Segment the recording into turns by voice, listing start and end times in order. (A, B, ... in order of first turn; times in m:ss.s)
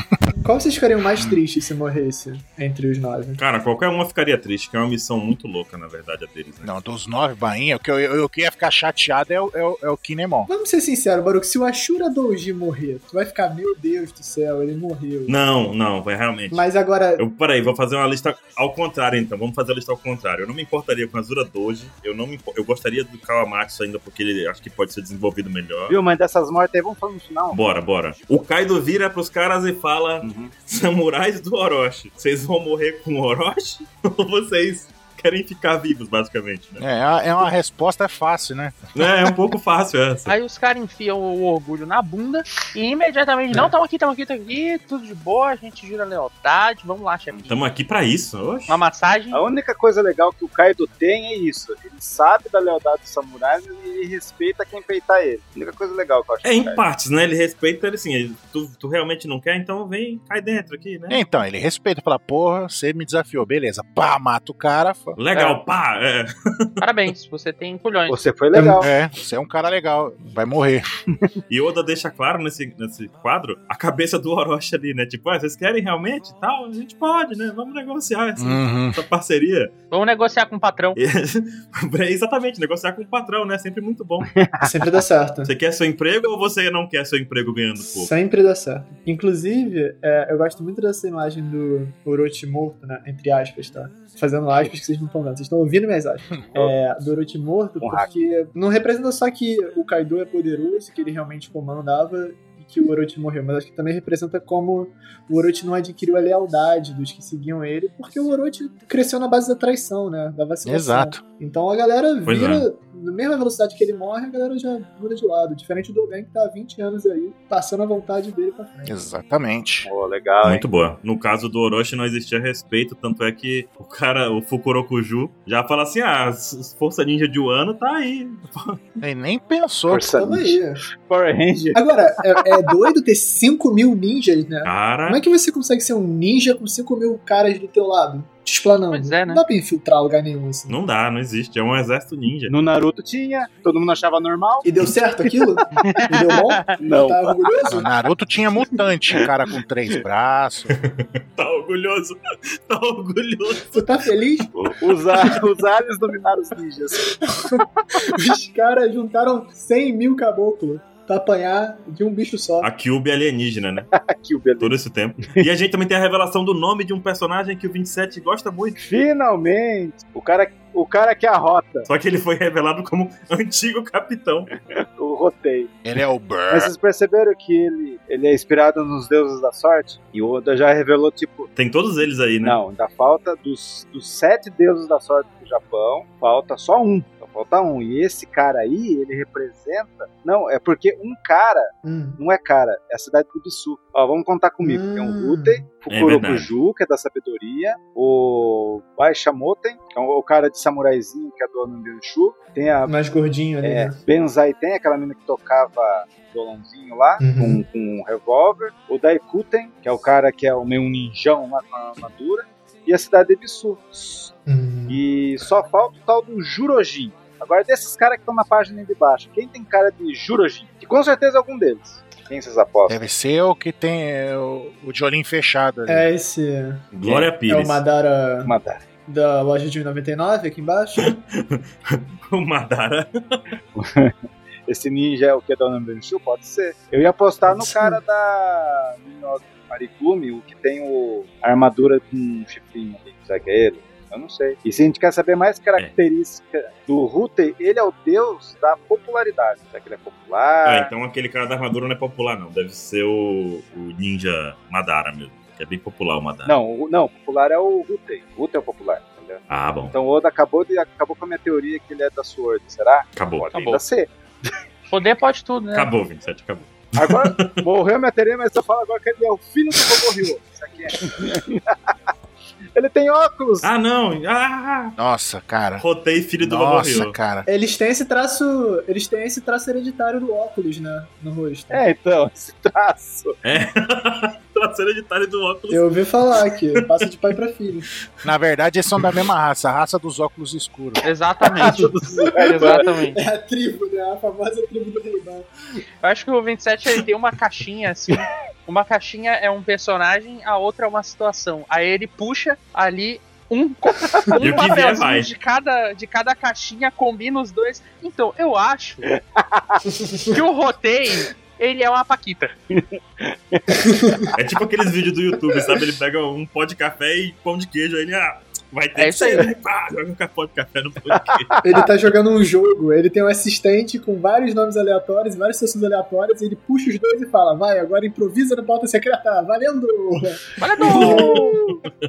0:00.4-0:03.4 A
0:03.4-0:06.7 B
0:06.6-0:10.5 C
0:10.5-0:15.4 A
0:15.3-0:26.0 B
0:16.5-0:17.2 A
0:25.9-0:27.6 D
0:27.5-0:36.8 B
0:30.2-0:30.5 D
0:36.8-0:38.8 C
0:39.0-0:40.3 B
0:40.3-0:47.6 E
0:47.5-0:48.8 B
0:48.7-0:49.4 E
0:49.3-0:56.8 D
0:56.4-1:01.2 B
1:01.1-1:05.2 C
1:05.2-1:06.6 B
1:05.3-1:05.6 E
1:06.8-1:08.2 E
1:08.1-1:08.9 D
1:08.5-1:10.8 C
1:11.5-1:19.7 B
1:18.4-1:19.0 C
1:19.9-1:21.0 E
1:21.0-1:24.3 B
1:24.3-1:24.9 D
1:24.6-1:25.5 A
1:25.4-1:28.1 B
1:27.8-1:59.0 A
1:37.8-1:38.1 D
1:50.6-1:51.2 C
1:52.3-1:52.7 B
1:58.9-1:59.9 C
1:59.8-2:00.7 D
2:00.4-2:08.8 B
2:09.0-2:10.2 C
2:09.9-2:12.7 D
2:10.2-2:10.8 A
2:11.8-2:20.8 A
2:14.6-2:15.2 B
2:18.9-2:19.4 E
2:20.7-2:22.5 B
2:22.5-2:26.0 D
2:24.6-2:27.9 A
2:25.9-2:26.5 E
2:26.8-2:27.4 D
2:27.7-2:30.7 C
2:30.8-2:32.2 B
2:32.7-2:33.8 B
2:33.7-2:34.5 A
2:34.6-2:37.1 D
2:37.1-2:42.7 A
2:42.6-2:43.9 B
2:43.9-2:44.8 D
2:44.6-2:48.8 B
2:48.8-2:51.9 D
2:51.9-2:54.5 B
2:54.5-2:55.7 D
2:55.8-2:56.7 C
2:56.5-3:01.5 D
3:01.6-3:02.6 B
3:02.4-3:22.9 D
3:11.8-3:12.2 A
3:14.6-3:15.7 A
3:15.9-3:16.5 B
3:22.9-3:24.0 A
3:23.6-3:34.4 D
3:27.2-3:27.6 A
3:34.5-3:35.0 A
3:34.9-3:43.0 D
3:42.9-3:46.1 C
3:45.9-3:48.6 A
3:46.9-3:47.8 B
3:47.0-3:47.3 D
3:48.4-3:48.8 D
3:49.1-3:51.1 A
3:51.0-3:53.4 B
3:53.8-3:54.2 D
3:54.7-4:10.9 D
3:57.5-3:58.0 A
4:10.6-4:16.5 B
4:16.4-4:24.5 D
4:19.5-4:19.9 B
4:23.2-4:23.5 B
4:23.5-4:23.8 E
4:24.9-4:25.9 E
4:25.7-4:27.6 B
4:27.0-4:32.1 D
4:32.7-4:33.7 D
4:33.6-4:35.0 B
4:35.0-4:35.8 C
4:35.8-4:37.1 B
4:36.4-4:37.5 C
4:37.5-4:41.8 A
4:41.7-4:43.4 D
4:43.4-4:47.0 B
4:45.7-4:47.9 A
4:48.2-4:51.0 C
4:51.0-4:53.2 E
4:51.5-4:52.9 D
4:52.6-4:55.5 A
4:56.0-5:09.1 E
5:04.0-5:04.4 D
5:04.4-5:05.3 B
5:09.0-5:09.8 D
5:10.3-5:12.5 E
5:12.7-5:13.8 D
5:13.8-5:14.3 A
5:14.4-5:21.6 B
5:19.0-5:19.5 E
5:21.1-5:21.9 D
5:21.6-5:31.8 A
5:30.6-5:31.6 E
5:30.9-5:31.4 B
5:30.9-5:31.4 D